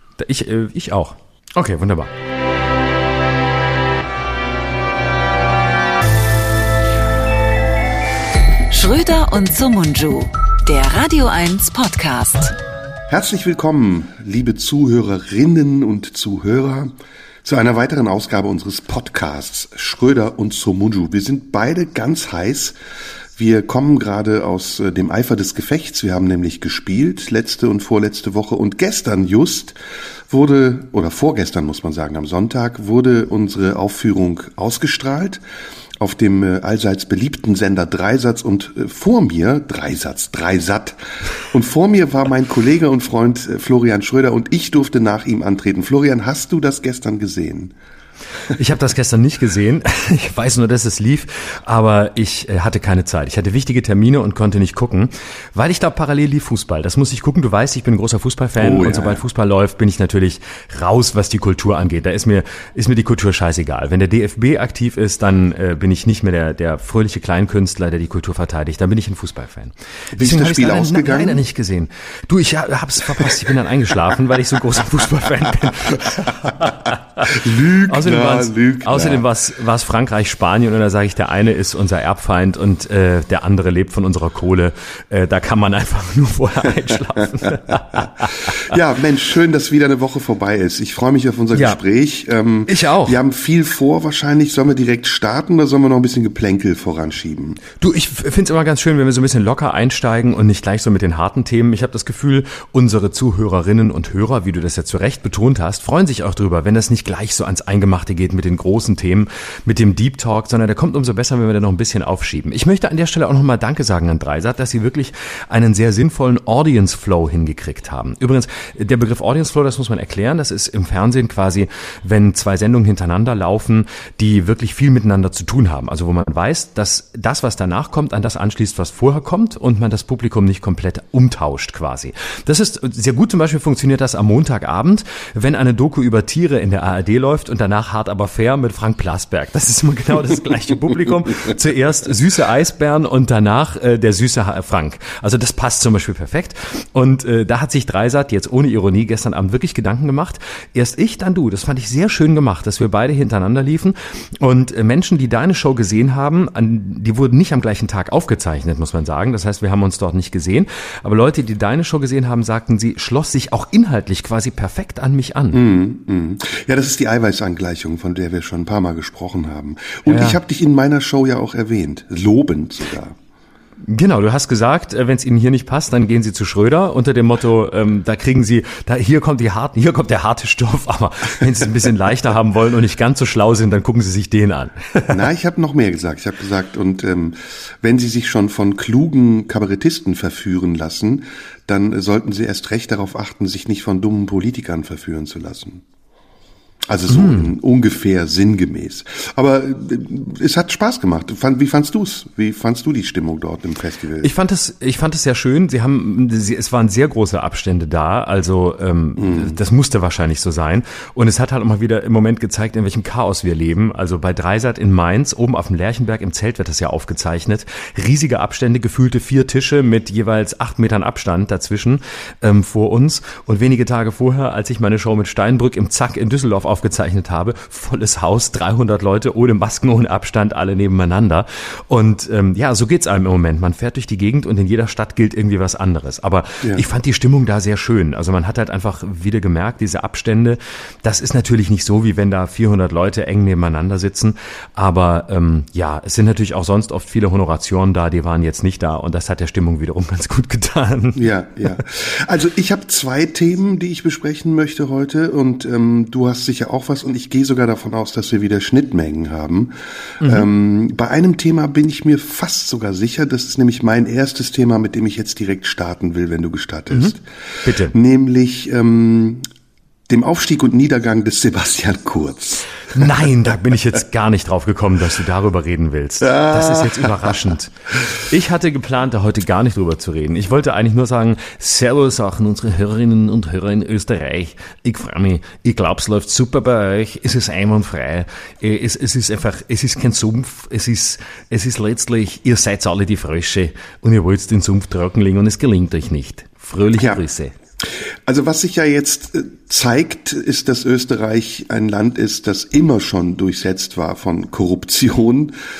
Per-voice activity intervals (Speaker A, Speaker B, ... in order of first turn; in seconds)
Speaker A: 0.2-2.1, 48.5-88.8, 91.5-91.8, 92.7-93.2, 97.8-165.6, 170.1-170.4, 173.8-185.2, 197.1-197.5, 204.2-251.2, 260.2-260.5, 267.6-267.9, 272.9-297.5
Speaker B: 8.7-12.5
Speaker C: 13.1-16.9, 17.4-22.8, 23.3-29.7, 30.3-35.4, 36.0-47.7, 58.6-59.2, 70.1-71.4, 77.2-79.2, 88.4-97.6, 165.5-173.2, 185.1-195.8, 196.9-204.3, 209.2-209.6, 251.1-269.4, 270.1-273.3, 276.2-277.4, 298.3-305.5